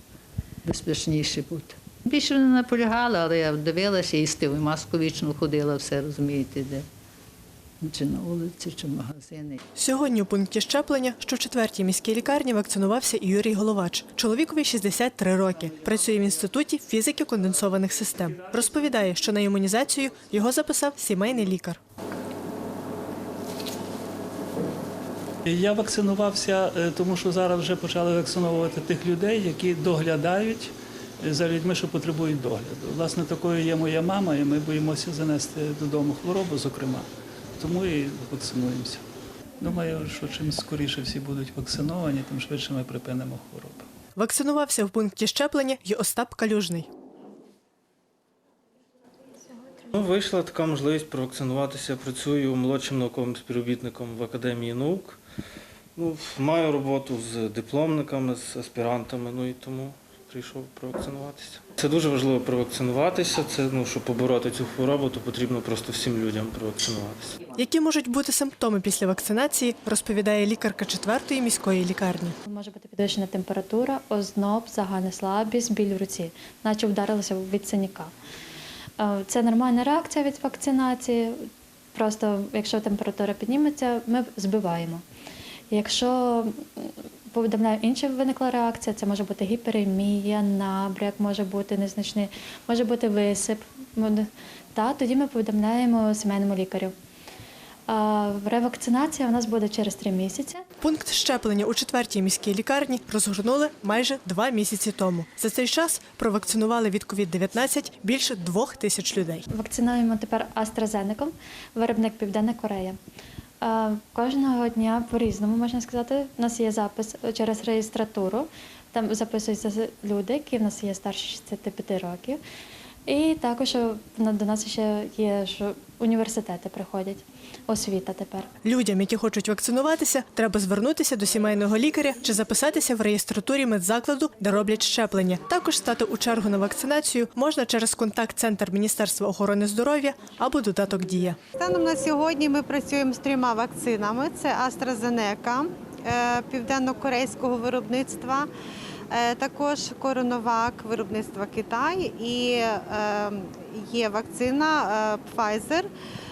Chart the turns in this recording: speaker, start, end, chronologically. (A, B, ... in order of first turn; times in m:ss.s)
0:00.6-0:06.8 A
0:07.8-0:09.6 A
0:09.8-0:21.8 B
0:25.4-0:39.1 C
0:39.6-0:43.9 C
0:44.2-0:46.9 B
0:49.6-0:55.2 D
0:56.0-1:07.4 D
1:07.6-1:12.4 B
1:12.4-1:18.1 E
1:19.0-1:25.0 E
1:25.7-1:36.9 E
1:37.9-1:40.6 E
1:40.8-1:49.4 B
1:49.5-1:53.0 E
1:53.6-2:02.4 E
2:03.1-2:08.5 E
2:08.6-2:21.4 B
2:21.6-2:28.5 F
2:29.1-2:35.9 F